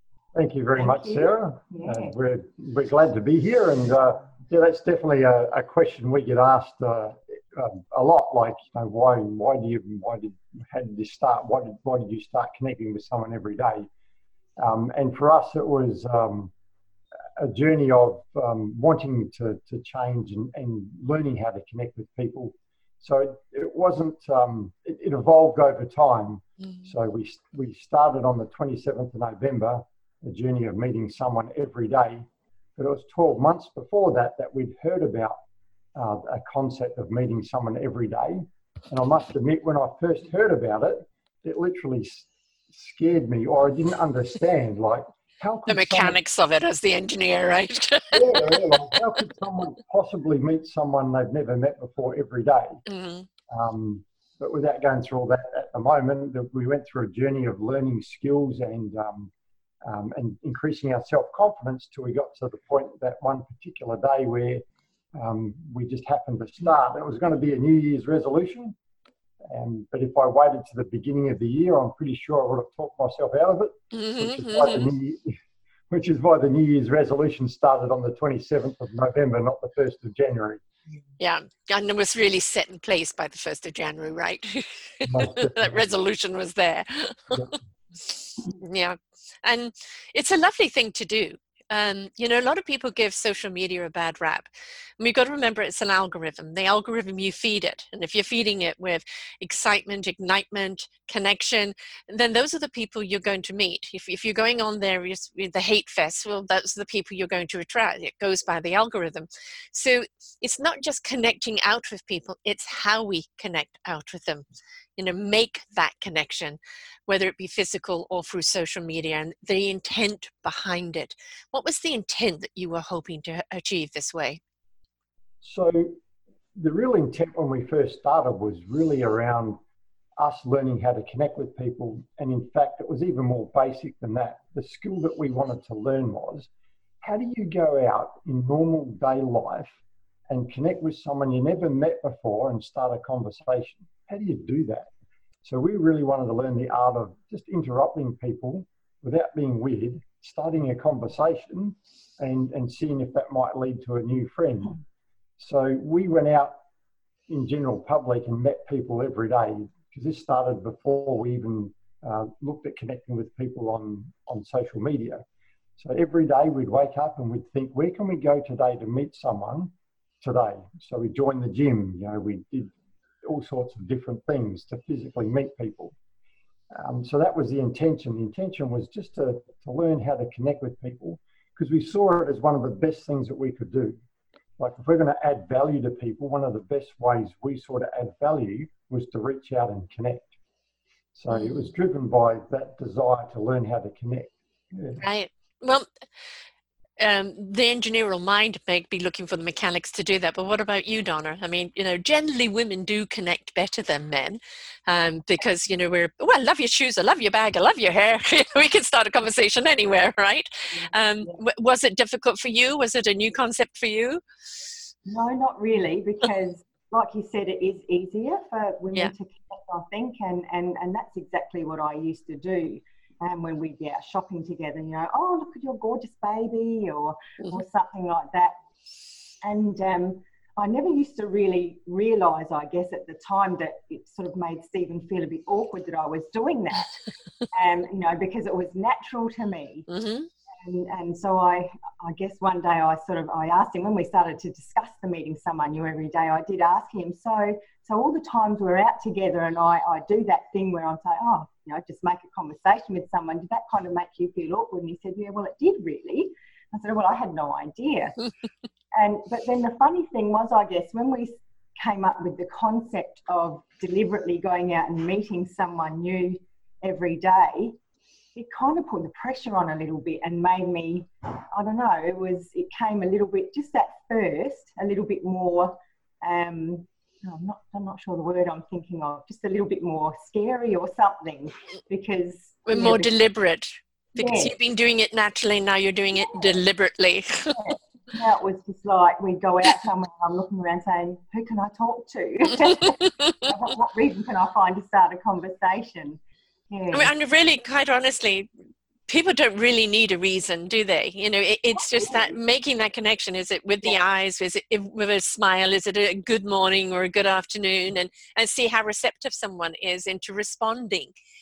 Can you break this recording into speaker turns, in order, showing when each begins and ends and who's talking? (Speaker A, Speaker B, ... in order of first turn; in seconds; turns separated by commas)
Speaker A: 0.3-13.9, Speaker B: 0.8-2.1, Speaker A: 14.6-16.5, Speaker A: 17.4-35.4, Speaker A: 35.9-46.2, Speaker C: 45.7-48.8, Speaker A: 48.1-52.8, Speaker C: 52.9-53.3, Speaker A: 53.5-59.3, Speaker A: 59.8-64.6, Speaker A: 65.1-68.8, Speaker A: 69.4-75.4, Speaker C: 73.9-74.9, Speaker A: 75.9-80.6, Speaker C: 81.2-87.5, Speaker A: 85.0-85.8, Speaker C: 88.0-114.4, Speaker C: 115.0-124.4, Speaker A: 125.4-126.0, Speaker A: 126.5-129.6, Speaker A: 130.2-136.5, Speaker A: 137.0-139.8, Speaker A: 140.3-144.9, Speaker A: 145.4-154.8, Speaker A: 155.4-156.6, Speaker A: 157.3-165.2, Speaker A: 165.8-175.9, Speaker A: 176.7-184.0, Speaker A: 184.6-190.3, Speaker A: 191.1-195.0, Speaker C: 191.3-191.7, Speaker C: 195.0-195.9, Speaker C: 197.0-214.2, Speaker B: 210.7-211.4, Speaker B: 215.1-228.6, Speaker B: 229.4-237.0, Speaker B: 237.5-239.9, Speaker C: 239.9-240.3, Speaker B: 240.6-258.2, Speaker B: 258.9-267.8, Speaker B: 268.3-283.1, Speaker C: 282.6-287.7, Speaker B: 284.1-284.5, Speaker B: 286.2-286.5, Speaker B: 287.6-296.2, Speaker C: 292.6-293.3, Speaker B: 296.7-297.1, Speaker C: 296.9-298.5, Speaker C: 299.1-311.1, Speaker B: 301.9-302.3